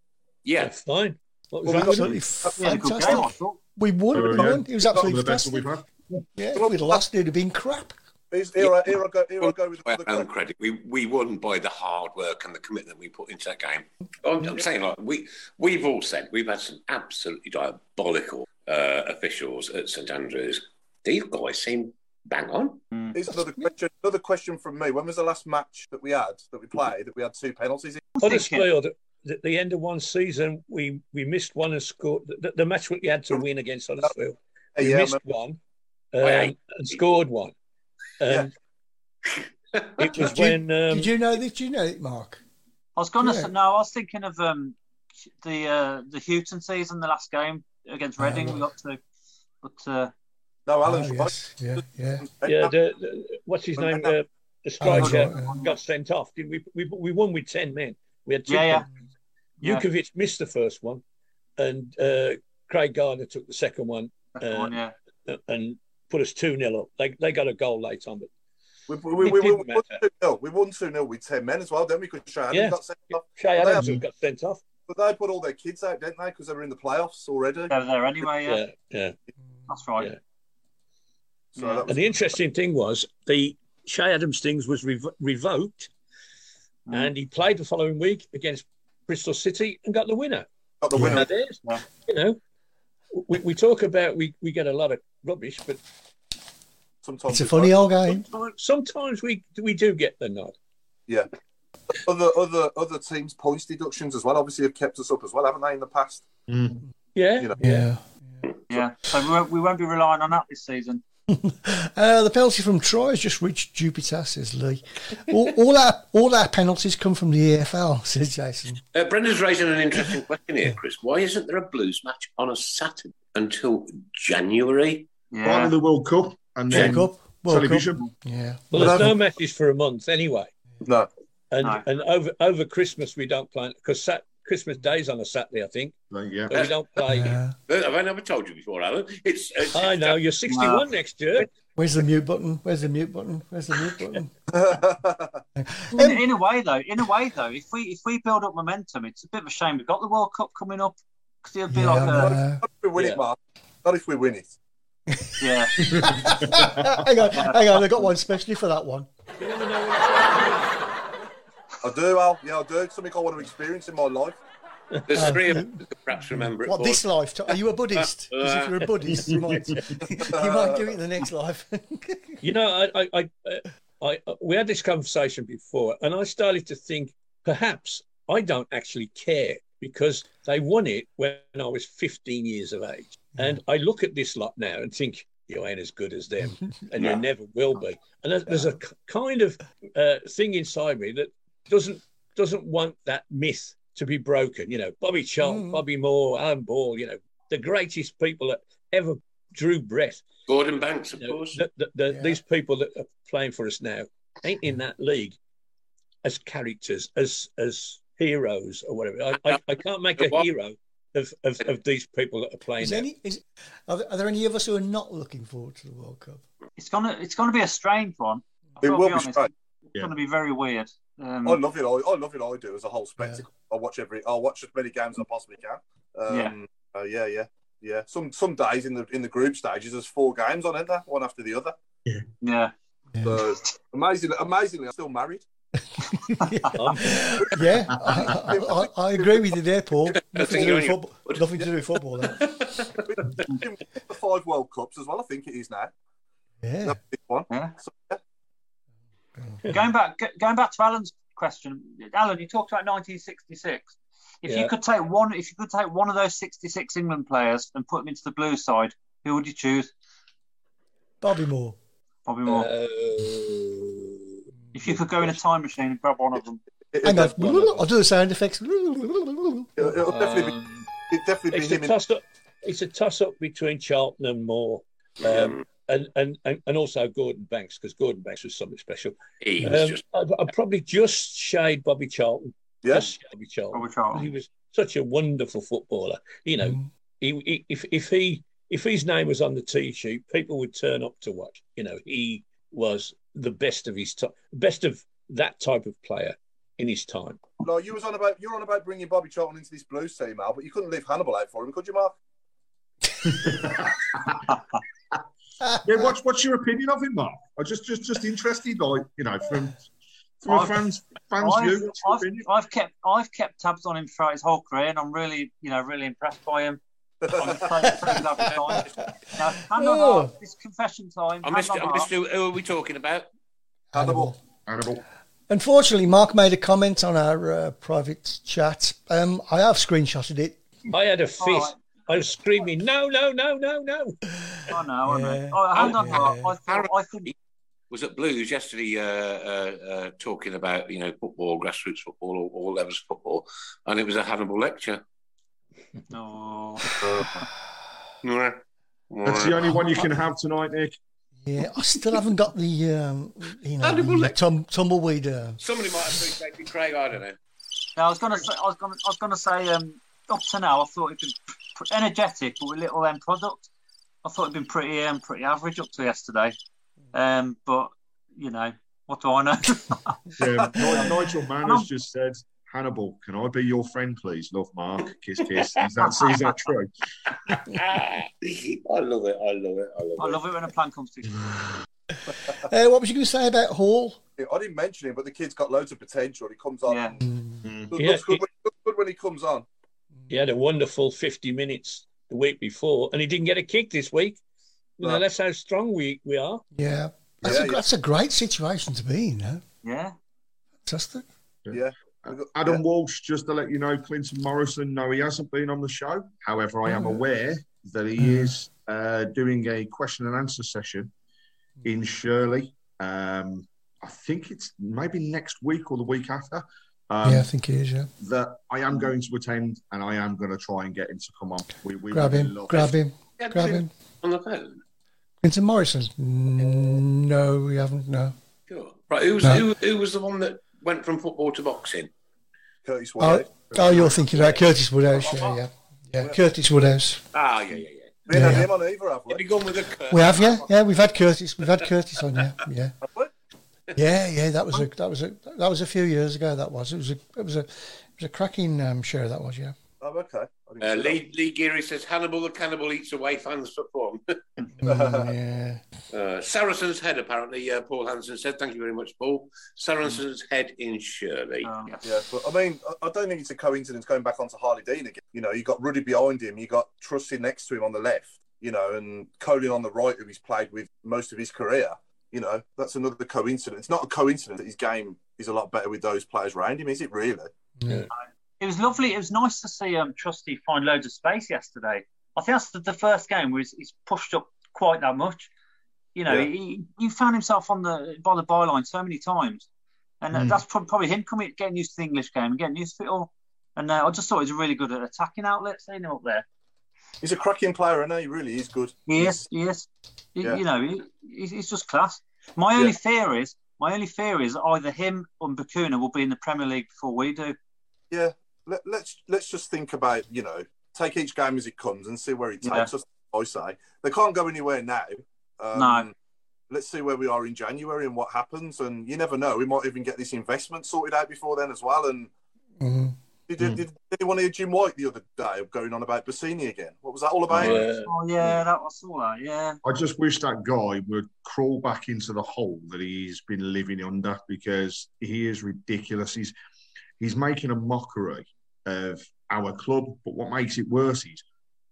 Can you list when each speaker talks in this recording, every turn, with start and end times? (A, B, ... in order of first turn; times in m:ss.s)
0:00.4-0:00.7 A
0:00.6-0:02.2 B
0:01.6-0:03.2 C
0:01.7-0:05.7 D
0:02.6-0:03.6 E
0:04.1-0:06.2 F
0:06.4-0:08.0 D
0:06.5-0:07.0 C
0:08.3-0:10.3 C
0:08.6-0:22.8 A
0:22.9-0:23.2 E
0:23.1-0:28.1 C
0:28.2-0:28.7 E
0:28.2-0:35.6 B
0:34.8-0:35.2 C
0:36.1-0:37.5 B
0:36.2-0:37.0 A
0:38.2-0:38.5 B
0:39.7-0:40.3 A
0:40.0-0:41.1 B
0:40.2-0:42.4 D
0:43.0-0:44.8 E
0:43.2-0:43.5 D
0:45.4-0:49.0 E
0:48.2-0:48.6 D
0:49.6-0:50.1 E
0:50.7-0:51.4 C
0:50.8-0:52.3 D
0:52.2-0:52.7 C
0:52.4-0:58.9 B
0:53.8-0:54.1 C
0:54.8-0:55.6 D
0:54.9-0:55.8 E
0:58.5-0:58.9 E
0:59.6-1:01.0 B
1:01.6-1:08.3 B
1:04.4-1:04.9 E
1:08.9-1:13.9 C
1:09.2-1:10.0 B
1:12.5-1:14.6 B
1:14.9-1:17.7 C
1:17.7-1:18.6 E
1:18.4-1:19.2 B
1:19.7-1:20.1 E
1:21.6-1:21.8 E
1:21.6-1:22.4 C
1:21.9-1:25.9 B
1:26.9-1:27.1 E
1:26.9-1:32.4 B
1:30.8-1:31.3 C
1:31.0-1:31.2 D
1:33.1-1:35.8 B
1:37.0-1:37.8 C
1:37.3-1:38.3 D
1:38.1-1:40.6 B
1:41.9-1:46.3 C
1:46.5-1:46.8 F
1:47.2-1:47.9 B
1:47.6-1:48.0 D
1:48.7-1:51.0 E
1:51.3-1:58.8 D
1:58.9-2:05.1 A
2:05.3-2:05.7 E
2:05.4-2:08.1 F
2:06.7-2:09.1 D
2:06.7-2:07.0 B
2:08.7-2:10.5 B
2:08.8-2:09.1 C
2:10.8-2:11.1 C
2:11.5-2:15.9 B
2:16.1-2:16.6 F
2:16.5-2:17.4 B
2:17.1-2:17.6 D
2:17.7-2:20.2 A
2:19.7-2:21.5 B
2:20.5-2:20.8 E
2:21.8-2:24.3 D
2:24.5-2:25.4 C
2:25.6-2:26.2 D
2:25.9-2:32.3 E
2:31.7-2:32.6 D
2:32.2-2:34.6 C
2:33.0-2:33.2 B
2:35.1-2:39.1 D
2:35.4-2:35.8 E
2:35.9-2:37.0 F
2:37.3-2:37.6 E
2:39.4-2:41.0 B
2:41.8-2:44.4 C
2:44.9-2:45.4 B
2:45.1-2:47.0 A
2:45.2-2:45.8 D
2:46.3-2:52.4 D
2:48.0-2:48.8 A
2:49.1-2:50.0 F
2:50.0-2:51.0 C
2:52.4-3:20.2 B
3:15.4-3:15.8 D
3:20.5-3:21.6 A
3:21.2-3:25.4 B
3:22.1-3:22.4 D
3:26.2-3:33.1 B
3:30.2-3:30.5 A
3:32.8-3:36.4 D
3:36.8-3:41.6 E
3:38.8-3:39.5 C
3:41.4-3:51.8 C
3:46.3-3:46.5 E
3:52.4-3:52.7 E
3:53.1-3:53.4 D
3:53.2-3:55.4 C
3:56.1-4:02.5 D
3:56.4-3:56.7 E
3:56.8-3:57.2 B
3:57.4-3:59.5 C
4:00.1-4:01.6 A
4:02.2-4:03.0 A
4:03.0-4:05.9 C
4:06.6-4:07.0 D
4:06.9-4:08.2 C
4:09.4-4:09.6 D
4:09.7-4:19.9 E
4:14.5-4:14.7 B
4:21.2-4:21.8 D
4:22.3-4:22.7 E
4:22.5-4:25.4 B
4:24.7-4:26.6 E
4:26.9-4:27.7 C
4:27.0-4:29.8 D
4:29.8-4:30.5 C
4:30.0-4:30.9 B
4:31.1-4:31.9 C
4:31.5-4:57.4 B
4:35.2-4:35.6 A
4:39.4-4:40.0 A
4:42.8-4:43.1 C
4:43.7-4:44.3 E
4:46.6-4:46.9 D
4:57.6-5:02.2 C
5:03.3-5:04.4 F
5:05.8-5:09.8 F
5:10.4-5:12.4 F
5:10.5-5:10.8 E
5:11.4-5:16.8 E
5:17.2-5:17.7 C
5:17.3-5:22.1 E
5:17.9-5:18.2 D
5:18.7-5:19.1 D
5:19.7-5:20.3 D
5:21.4-5:23.3 A
5:23.9-5:24.4 D
5:23.9-5:24.3 C
5:24.7-5:25.0 F
5:25.5-5:30.6 D
5:30.9-5:34.2 B
5:31.4-5:31.8 E
5:34.4-5:36.5 D
5:34.7-5:37.3 E
5:35.8-5:37.3 A
5:37.9-5:45.0 A
5:46.1-5:46.9 E
5:47.0-5:47.4 C
5:48.2-5:49.8 A
5:49.2-5:51.0 F
5:51.4-5:55.6 D
5:53.8-5:54.4 A
5:55.6-5:57.4 A
5:58.0-6:03.7 E
6:04.2-6:06.6 E
6:07.1-6:10.2 E
6:10.4-6:16.9 F
6:10.9-6:11.9 E
6:17.5-6:20.4 A
6:20.2-6:21.5 E
6:22.6-6:24.2 D
6:24.4-6:27.2 C
6:26.9-6:27.2 E
6:27.2-6:27.7 D
6:27.6-6:27.9 F
6:27.9-6:29.7 C
6:28.0-6:28.4 B
6:30.3-6:34.4 B
6:35.0-6:36.6 B
6:36.8-6:39.6 D
6:37.4-6:37.8 C
6:39.8-6:40.2 E
6:40.9-6:41.2 D
6:41.6-6:51.1 F
6:41.7-6:42.8 C
6:46.9-6:47.2 D
6:48.2-6:48.5 D
6:51.8-6:57.5 F
6:57.2-6:58.1 D
6:58.2-7:03.0 F
7:02.1-7:03.9 D
7:03.4-7:04.8 A
7:05.4-7:08.4 D
7:08.7-7:12.1 A
7:12.8-7:14.2 C
7:13.2-7:17.2 D
7:17.3-7:18.2 A
7:18.3-7:19.4 C
7:18.3-7:18.7 D
7:19.3-7:20.7 A
7:20.1-7:23.0 D
7:23.0-7:23.3 C
7:24.0-7:29.8 D
7:30.0-7:31.2 C
7:30.8-7:34.2 A
7:34.8-7:35.8 D
7:34.8-7:35.3 C
7:36.1-7:41.7 A
7:41.6-7:42.1 E
7:42.0-7:57.5 C
7:57.8-7:58.1 D
7:58.1-8:05.5 E
8:06.2-8:09.7 E
8:10.2-8:16.4 E
8:10.3-8:10.6 F
8:17.2-8:19.4 C
8:19.1-8:27.6 E
8:28.1-8:36.1 C
8:32.6-8:32.9 E
8:35.8-8:36.1 E
8:36.7-8:42.3 C
8:42.8-8:43.2 D
8:43.5-8:47.8 C
8:47.5-8:47.8 F
8:47.6-8:48.1 B
8:48.1-8:49.8 E
8:49.8-8:56.5 F
8:57.2-9:01.4 F